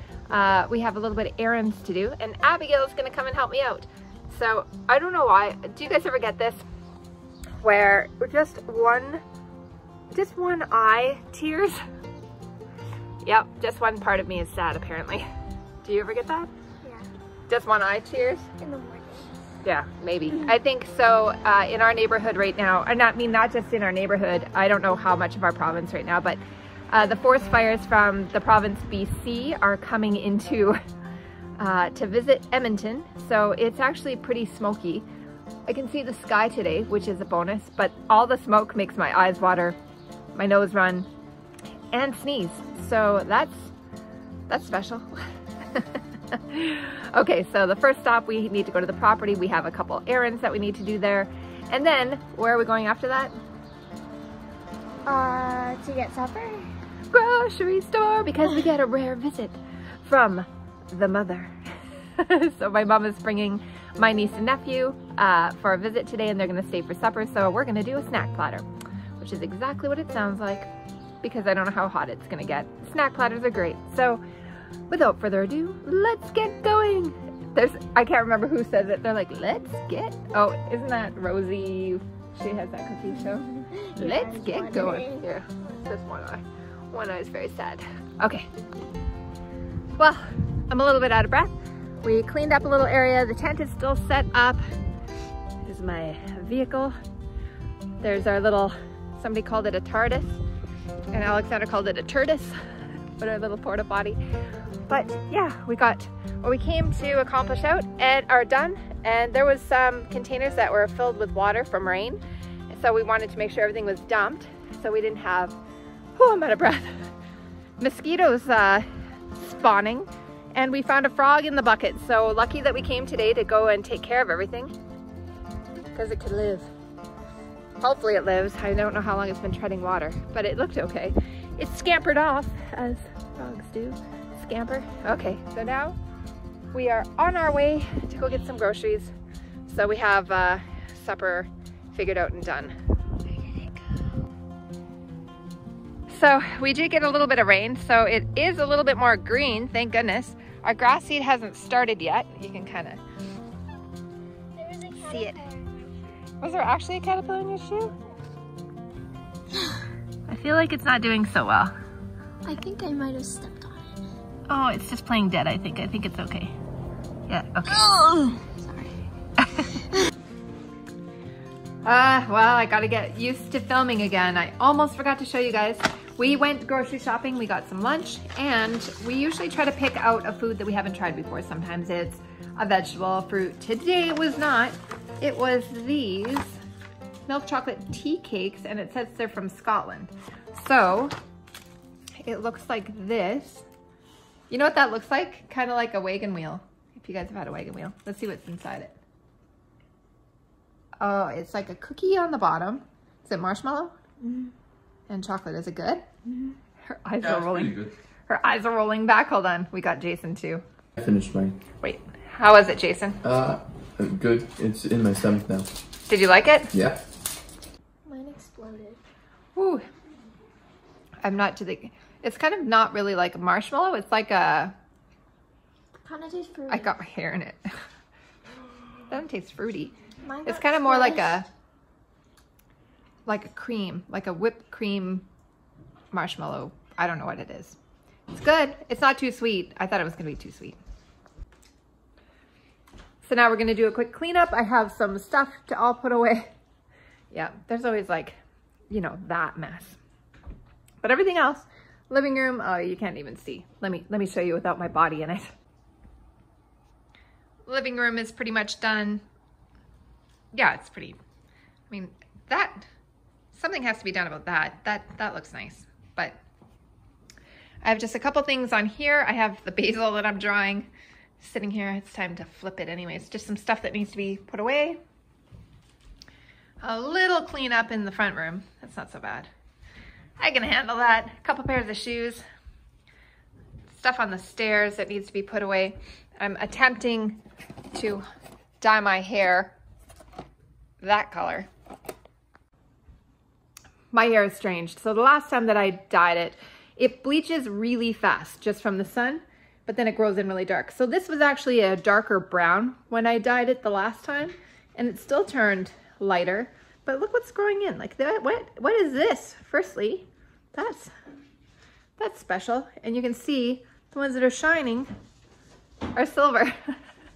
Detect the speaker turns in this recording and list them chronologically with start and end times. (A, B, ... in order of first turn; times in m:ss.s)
0:00.3-0:06.6 A
0:07.6-0:09.2 A
0:10.1-0:11.8 A
0:13.2-0:15.3 A
0:15.8-0:16.5 A
0:17.5-0:18.5 A
0:18.6-0:19.4 B
0:19.6-0:26.4 A
0:26.9-0:30.8 A
0:31.6-0:35.1 A
0:35.7-0:39.8 A
0:40.4-0:41.1 A
0:41.9-0:43.7 A
0:44.5-0:53.3 A
0:55.1-0:56.7 B
0:57.1-1:01.5 A
1:02.2-1:08.7 A
1:09.2-1:10.7 A
1:11.2-1:14.2 A
1:14.9-1:28.5 A
1:23.8-1:25.2 B
1:30.0-1:34.6 A
1:35.6-1:36.9 A
1:38.0-1:40.4 A
1:41.1-1:42.6 A
1:43.2-1:44.2 A
1:44.9-1:55.6 A
1:56.2-1:57.1 A
1:57.8-2:04.7 A
2:05.9-2:06.7 A
2:07.8-2:16.0 A
2:16.7-2:19.1 A
2:19.7-2:22.8 A
2:26.1-2:33.0 A
2:34.6-2:35.9 B
2:35.0-2:35.5 A
2:36.4-2:37.9 A
2:40.3-2:41.7 A
2:42.4-2:43.9 B
2:44.5-2:46.6 A
2:47.3-2:47.9 A
2:47.7-2:48.6 B
2:49.5-2:49.9 A
2:51.8-3:06.6 A
3:07.3-3:11.2 A
3:12.2-3:13.7 A
3:14.5-3:19.0 A
3:21.0-3:24.0 A
3:24.2-3:24.5 B
3:25.1-3:26.0 A
3:26.8-3:30.6 A
3:27.5-3:27.9 C
3:31.0-3:31.6 C
3:31.8-3:33.2 A
3:33.2-3:35.7 C
3:36.1-3:36.7 A
3:36.7-3:37.0 C
3:38.1-3:39.0 B
3:39.6-3:39.9 A
3:41.2-3:44.8 A
3:46.0-3:46.9 B
3:46.7-3:47.7 A
3:49.1-3:49.9 A
3:50.2-3:51.4 B
3:50.4-3:51.5 A
3:53.3-3:55.3 A
3:56.1-3:57.8 A
3:58.3-4:00.8 A
4:03.2-4:06.5 A
4:07.3-4:08.4 A
4:08.9-4:10.0 A
4:11.0-4:15.5 A
4:17.7-4:19.2 A
4:20.5-4:21.2 A
4:21.9-4:22.9 A
4:23.5-4:26.4 A
4:27.8-4:30.9 A
4:31.4-4:35.0 A
4:36.8-4:39.5 A
4:40.4-4:42.4 A
4:43.9-4:47.4 A
4:47.9-4:48.3 A
4:48.8-4:49.8 A
4:51.0-4:51.7 A
4:54.1-5:11.1 A
5:12.2-5:15.1 A
5:16.1-5:17.0 A